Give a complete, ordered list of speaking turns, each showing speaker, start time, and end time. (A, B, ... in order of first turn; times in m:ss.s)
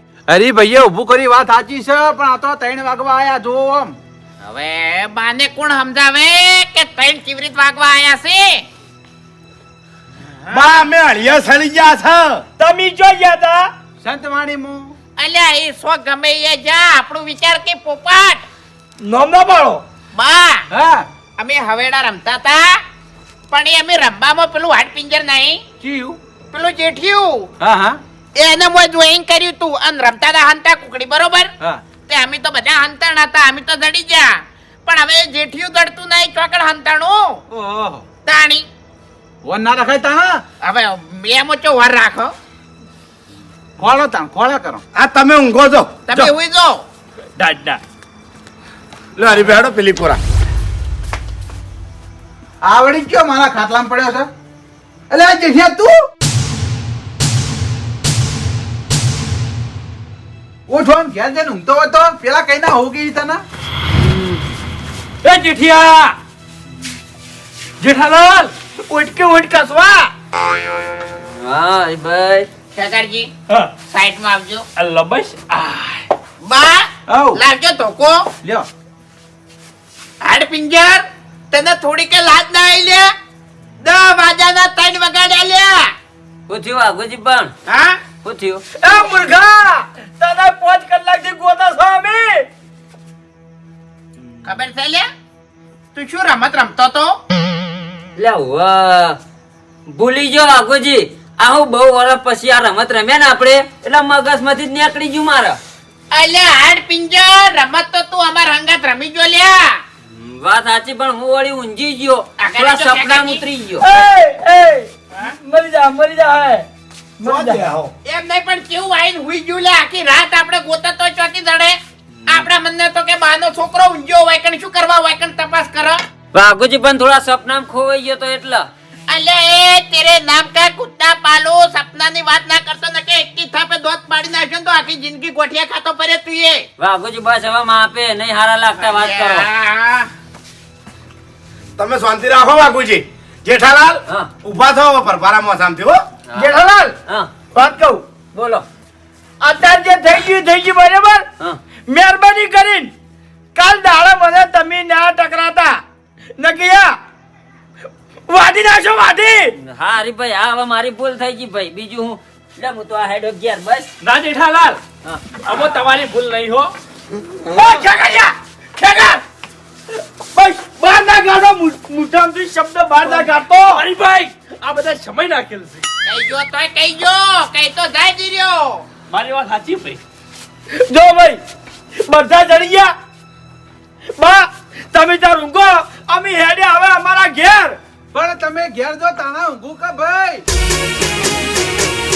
0:00.3-0:04.0 A
0:04.4-0:08.7 B
0:10.5-0:12.4 C
0:12.6-0:13.7 D
0:14.0-0:14.9 A
0:15.2-0:18.4 B
0:19.0-0:19.8 D
0:20.1-0:20.7 B
0:20.7-0:21.1 A
0:21.4-0:22.8 B
0:23.5-0:25.6 B
0:25.8-0:26.2 A
0:26.5-0:27.5 B
0:27.6-0:28.0 A
0:28.4-0:31.5 B
0:32.1-0:37.4 B
0:37.5-0:38.0 A
0:38.3-0:38.7 B
0:39.4-0:40.4 A
0:40.6-0:42.3 B
0:43.8-0:44.8 A
0:44.9-0:46.3 C
0:46.1-0:46.8 B
0:47.4-0:47.8 E
0:49.2-0:50.2 C
0:52.6-0:54.3 A
0:55.1-0:56.0 A
1:00.7-1:03.4 A
1:04.0-1:04.4 F
1:05.2-1:06.2 E
1:07.8-1:08.5 E
1:08.9-1:10.1 D
1:11.4-1:12.5 F
1:12.8-1:13.3 B
1:13.9-1:14.7 B
1:14.8-1:16.1 E
1:16.4-1:18.3 B
1:17.1-1:17.4 A
1:20.2-1:23.1 B
1:23.8-1:25.9 B
1:26.5-1:27.5 F
1:27.7-1:28.0 B
1:28.2-1:28.6 F
1:28.8-1:32.5 D
1:34.4-1:35.1 B
1:36.0-1:37.2 B
1:38.2-1:39.2 F
1:39.9-1:45.6 F
1:46.1-1:49.8 B
1:50.1-1:54.0 F
1:52.4-1:53.4 B
1:53.8-1:56.7 D
1:57.2-1:57.8 D
1:57.2-1:57.9 C
1:58.0-2:06.0 B
2:06.3-2:08.7 F
2:09.1-2:16.7 B
2:16.8-2:19.5 F
2:18.8-2:20.1 B
2:21.8-2:26.0 C
2:26.4-2:27.0 D
2:27.5-2:28.0 D
2:28.4-2:28.6 F
2:29.4-2:31.3 D
2:31.9-2:32.9 D
2:33.6-2:35.8 D
2:36.4-2:37.0 D
2:38.3-2:39.6 D
2:39.6-2:43.9 F
2:44.0-2:44.8 E
2:45.4-2:46.7 E
2:47.5-2:49.2 D
2:50.4-2:53.9 D
2:53.0-2:55.8 E
2:56.0-2:58.8 B
2:59.1-3:00.0 E
3:00.8-3:01.4 D
3:02.0-3:02.9 D
3:04.2-3:07.8 D
3:08.1-3:10.4 A